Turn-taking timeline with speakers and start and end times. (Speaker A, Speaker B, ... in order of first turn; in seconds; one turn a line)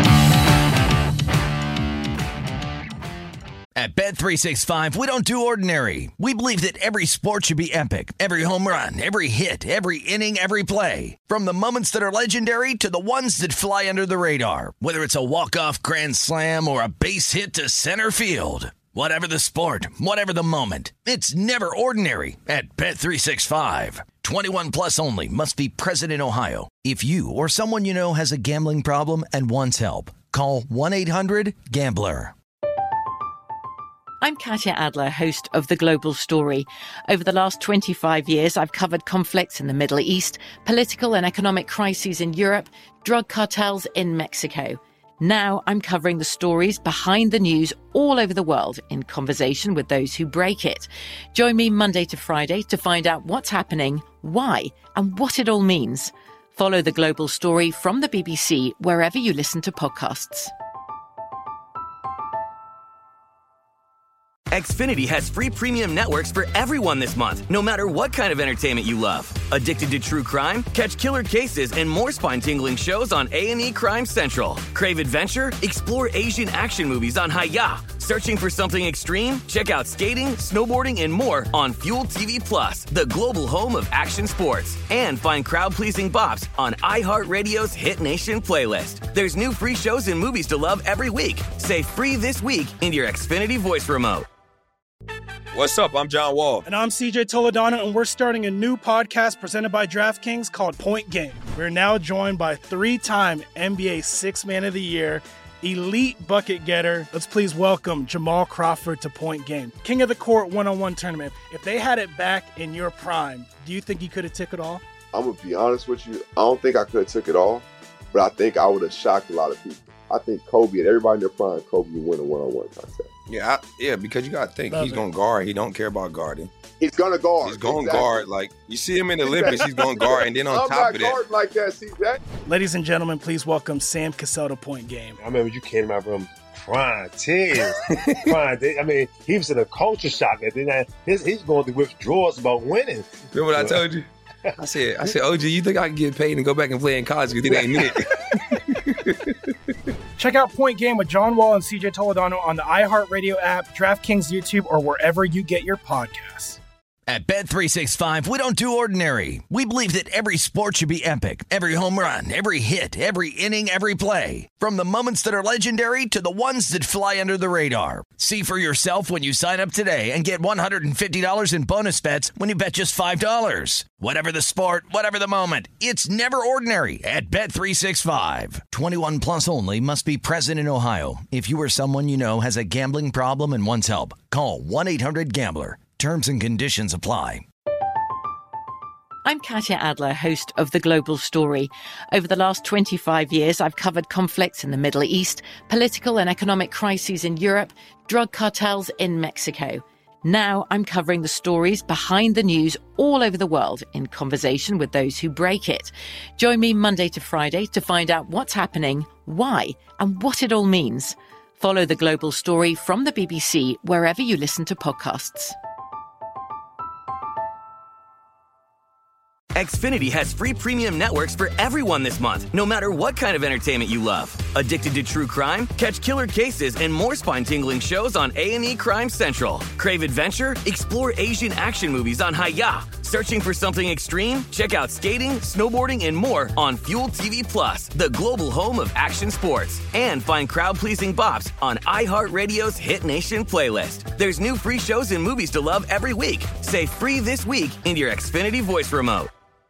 Speaker A: 3.7-32.3
Speaker B: 34.2-60.5
Speaker C: 64.5-94.2
Speaker D: 95.5-96.6
Speaker E: 96.6-114.8
Speaker F: 115.1-123.1
Speaker D: 123.3-126.5
Speaker F: 126.8-128.2
Speaker D: 127.4-131.2
Speaker F: 129.2-132.2
Speaker E: 132.4-135.2
Speaker G: 135.2-143.8
Speaker D: 137.9-138.3
Speaker D: 143.3-144.1
Speaker D: 144.6-149.4
Speaker G: 147.5-147.9
Speaker E: 150.2-156.6
Speaker A: 157.1-187.4
Speaker B: 189.2-215.5
Speaker C: 219.5-249.3